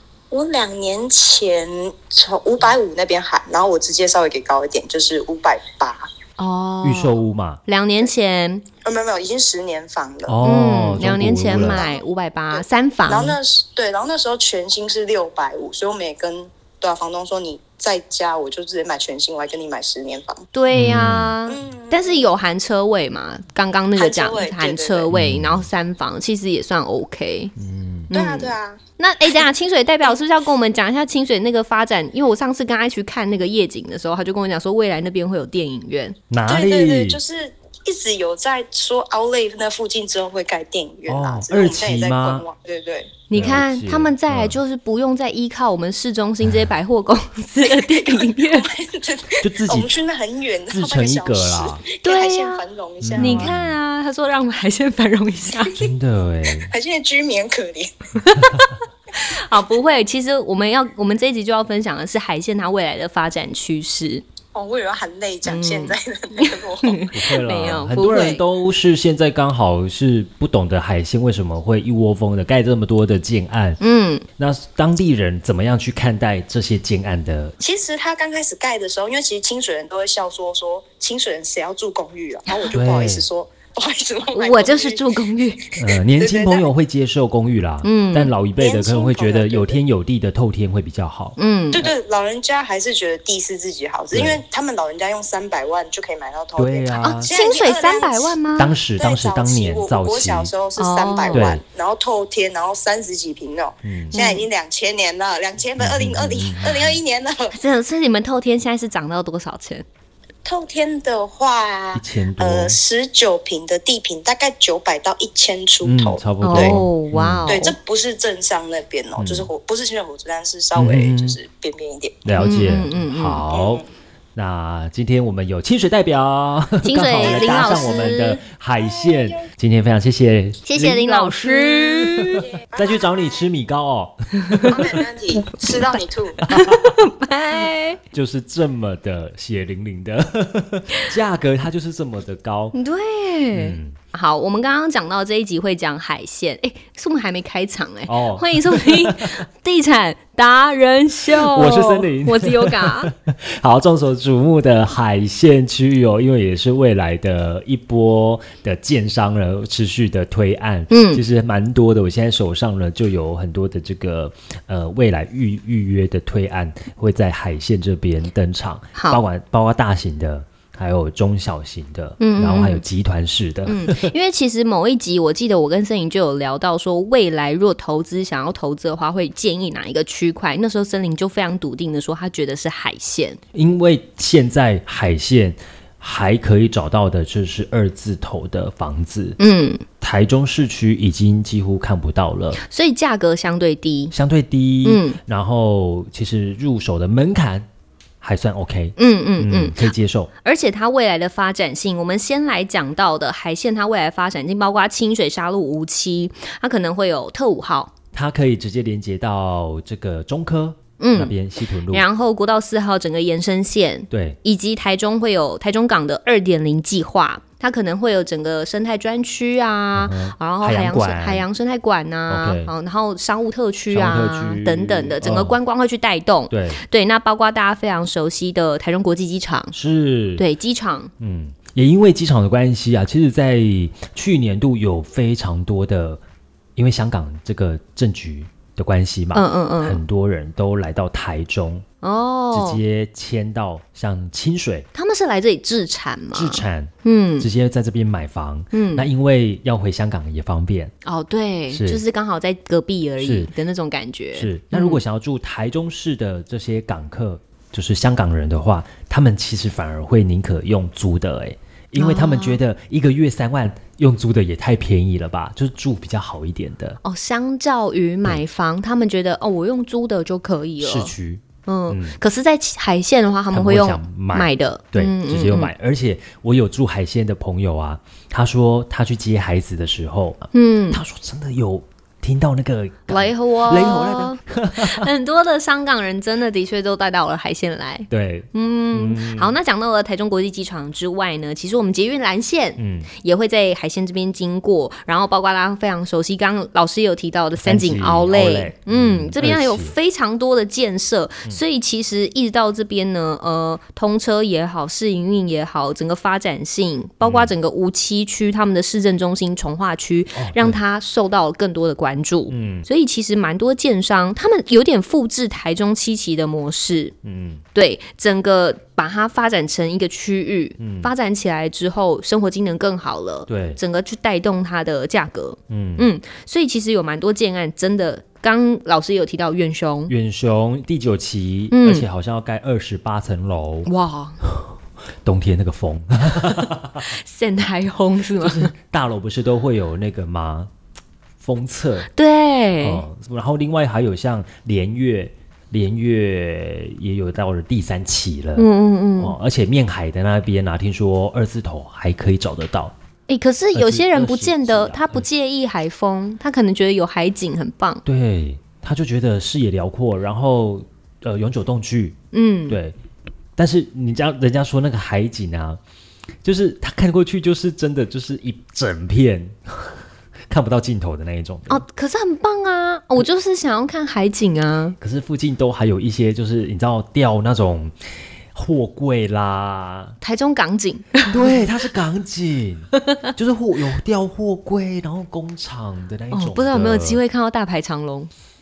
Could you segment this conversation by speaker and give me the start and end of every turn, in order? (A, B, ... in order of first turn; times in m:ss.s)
0:00.3-0:06.1 A
0:06.4-0:08.6 B
0:06.8-0:07.6 C
0:08.8-0:10.4 A
0:10.3-0:11.8 C
0:10.4-0:13.4 B
0:11.5-0:20.4 A
0:20.5-0:27.5 B
0:20.7-0:21.4 C
0:21.5-0:22.3 A
0:24.0-0:25.1 A
0:25.1-0:25.7 C
0:27.6-0:28.1 C
0:28.1-0:36.2 B
0:28.1-0:28.8 A
0:36.3-0:37.2 C
0:36.5-0:43.5 A
0:41.1-0:42.5 C
0:43.3-0:48.7 B
0:43.3-0:44.6 C
0:46.4-0:46.7 C
0:47.6-0:53.5 A
0:49.4-0:50.0 C
0:50.7-0:51.8 C
0:52.0-0:52.6 B
0:53.0-0:53.8 C
0:53.2-0:55.8 B
0:55.7-0:56.7 C
0:56.7-0:57.9 A
0:58.2-1:04.2 B
1:04.6-1:07.1 A
1:05.4-1:08.4 B
1:07.1-1:13.8 C
1:13.8-1:14.2 B
1:14.4-1:17.6 C
1:17.6-1:25.2 A
1:22.7-1:23.3 C
1:24.3-1:25.6 B
1:25.8-1:26.7 A
1:25.8-1:31.4 C
1:27.8-1:28.3 B
1:28.5-1:29.8 A
1:31.4-1:31.9 B
1:31.7-1:38.4 A
1:34.1-1:34.4 C
1:36.6-1:37.3 C
1:37.0-1:38.7 B
1:38.6-1:40.5 C
1:39.0-1:47.5 A
1:40.8-1:41.5 B
1:41.3-1:41.6 C
1:43.8-1:44.2 C
1:44.1-1:44.4 B
1:45.8-1:47.0 C
1:47.5-1:49.8 B
1:50.4-1:56.8 A
1:51.9-1:52.8 C
1:55.8-1:57.5 C
1:56.4-1:57.7 B
1:57.5-2:02.3 A
1:59.2-1:59.5 C
2:00.8-2:01.4 C
2:02.2-2:03.8 C
2:02.4-2:03.5 B
2:03.5-2:03.8 A
2:04.4-2:15.0 C
2:06.8-2:08.4 B
2:07.2-2:08.2 A
2:08.8-2:09.4 A
2:10.6-2:12.4 B
2:12.5-2:13.4 A
2:14.7-2:16.4 A
2:16.4-2:17.0 C
2:16.5-2:18.0 B
2:17.6-2:22.8 C
2:22.7-2:33.1 B
2:23.5-2:24.0 C
2:28.1-2:29.4 C
2:31.3-2:54.1 C
2:40.9-2:41.2 B
2:49.0-2:49.2 B
2:52.2-2:52.8 B
2:53.7-3:03.4 B
3:03.5-3:09.4 C
3:09.4-3:09.8 B
3:10.0-3:12.6 C
3:12.6-3:14.1 B
3:14.1-3:17.7 C
3:14.8-3:15.2 B
3:18.2-3:20.3 C
3:19.0-3:27.9 B
3:28.1-3:32.1 C
3:31.0-3:31.4 B
3:31.9-3:49.7 B
3:34.1-3:34.4 C
3:39.9-3:41.5 C
3:42.3-3:42.7 C
3:43.9-3:45.6 C
3:46.5-3:46.8 C
3:49.7-3:50.4 C
3:50.4-3:51.1 B
3:51.2-3:56.2 C
3:56.8-4:01.8 C
3:59.3-4:00.0 B
4:02.0-4:02.8 B
4:02.5-4:04.9 C
4:04.9-4:07.5 B
4:06.3-4:10.9 C
4:08.7-4:09.1 B
4:11.0-4:15.0 B
4:11.7-4:12.0 C
4:13.2-4:13.5 C
4:14.4-4:27.0 C
4:22.0-4:22.6 B
4:27.0-4:31.2 B
4:30.8-4:32.2 C
4:31.7-4:35.7 B
4:33.5-4:45.1 C
4:40.5-4:41.0 B
4:43.1-5:17.2 B
4:48.1-4:49.6 C
4:52.8-4:53.1 C
4:57.6-5:00.0 C
5:07.2-5:07.6 C
5:10.4-5:10.8 C
5:12.5-5:12.9 C
5:17.2-5:17.6 C
5:17.7-5:30.1 B
5:20.8-5:21.1 C
5:23.5-5:23.8 C
5:25.7-5:26.1 C
5:30.1-5:33.9 C
5:31.7-5:32.1 B
5:33.9-5:34.4 B
5:34.4-5:34.7 C
5:35.2-5:37.0 C
5:37.0-5:38.7 B
5:38.4-5:40.7 C
5:41.4-5:42.1 C
5:42.1-5:43.1 B
5:42.8-5:52.9 C
5:48.6-5:49.4 B
5:53.3-5:58.0 B
5:53.7-5:55.3 C
5:58.0-6:02.2 C
6:02.3-6:02.8 B
6:02.7-6:03.0 C
6:03.6-6:05.8 C
6:06.4-6:11.8 C
6:11.7-6:15.0 B
6:15.0-6:20.2 C
6:20.2-6:21.6 B
6:21.3-6:27.2 C
6:26.3-6:28.3 B